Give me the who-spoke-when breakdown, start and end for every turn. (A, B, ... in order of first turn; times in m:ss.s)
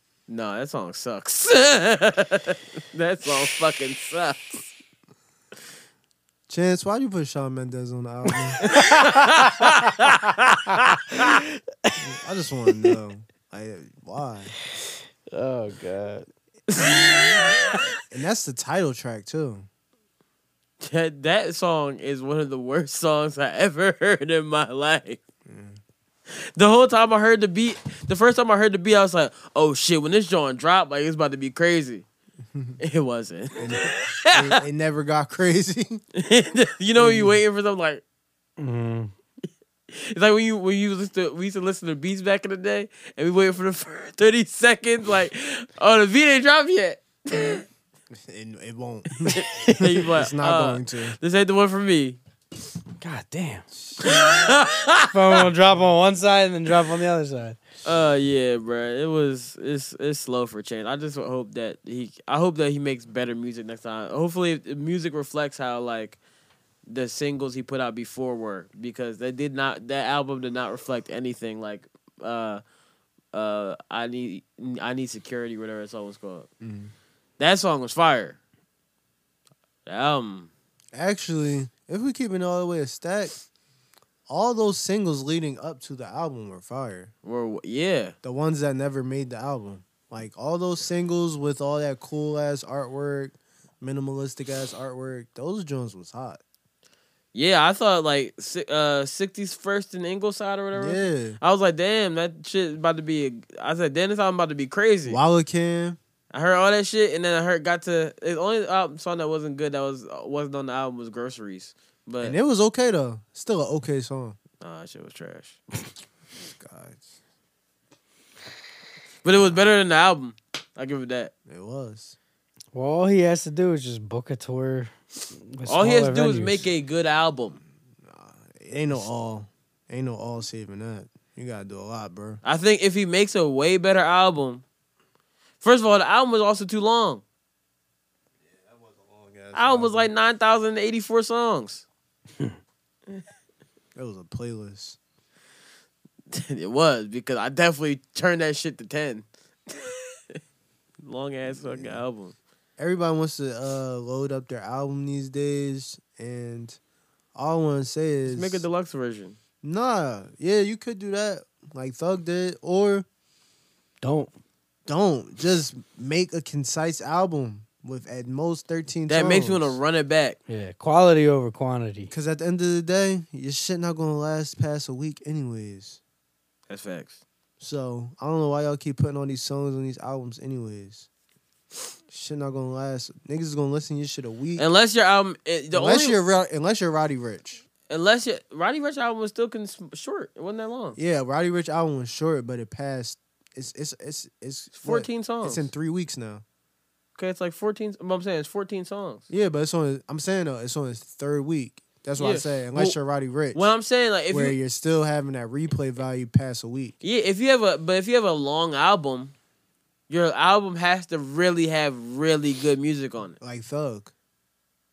0:00.3-0:04.7 A
0:06.5-0:08.6 B
0:08.6-0:10.6 A
0:11.2-0:12.0 C
0:12.0-0:14.5 B
0:15.3-0:16.3 C
0:16.7-0:17.8 A
0:18.1-0:19.7 B
0:20.8-0:25.2 A
0:25.5-0:25.8 B
0:26.3-0:32.0 A
0:32.5-0:32.8 B
0:32.8-0:34.6 A
0:33.6-0:36.0 B
0:36.2-0:38.0 A
0:37.0-0:37.4 B
0:38.6-0:39.1 C
0:39.9-0:47.6 A
0:48.1-0:51.2 B
0:49.3-0:52.2 A
0:53.0-0:53.7 C
0:54.0-0:55.1 A
0:55.1-0:57.6 C
0:57.8-1:06.2 A
1:06.9-1:12.6 A
1:13.3-1:16.5 A
1:16.6-1:16.9 B
1:17.4-1:18.4 A
1:19.9-1:20.5 A
1:20.9-1:23.4 B
1:24.3-1:27.1 B
1:27.2-1:28.2 A
1:28.2-1:36.4 B
1:37.3-1:45.2 A
1:40.7-1:41.4 B
1:45.1-1:46.0 B
1:46.3-1:52.4 A
1:52.2-1:54.4 B
1:54.6-1:55.6 A
1:56.4-1:57.2 B
1:59.2-2:01.3 A
2:01.5-2:02.2 B
2:02.7-2:04.9 C
2:05.5-2:06.7 C
2:05.7-2:07.6 A
2:08.0-2:12.4 B
2:12.4-2:14.6 A
2:15.6-2:17.2 A
2:18.6-2:20.1 B
2:19.5-2:21.8 A
2:24.0-2:25.0 B
2:26.3-2:30.4 A
2:31.0-2:32.4 A
2:31.5-2:32.0 B
2:32.8-2:36.8 B
2:37.4-2:38.7 B
2:38.3-2:39.4 A
2:39.6-2:43.1 B
2:44.0-2:44.3 C
2:44.9-2:49.8 B
2:49.1-2:50.4 A
2:50.5-2:52.1 C
2:52.1-2:56.0 B
2:56.7-2:57.2 A
2:57.6-3:01.1 B
3:02.1-3:04.7 B
3:04.6-3:06.2 A
3:05.7-3:07.6 B
3:07.9-3:11.0 A
3:11.0-3:16.4 B
3:14.8-3:15.7 A
3:17.2-3:19.3 A
3:19.3-3:23.7 B
3:22.2-3:23.0 A
3:23.5-3:24.6 A
3:24.3-3:27.0 B
3:27.0-3:29.3 A
3:30.1-3:33.4 A
3:33.4-3:34.1 B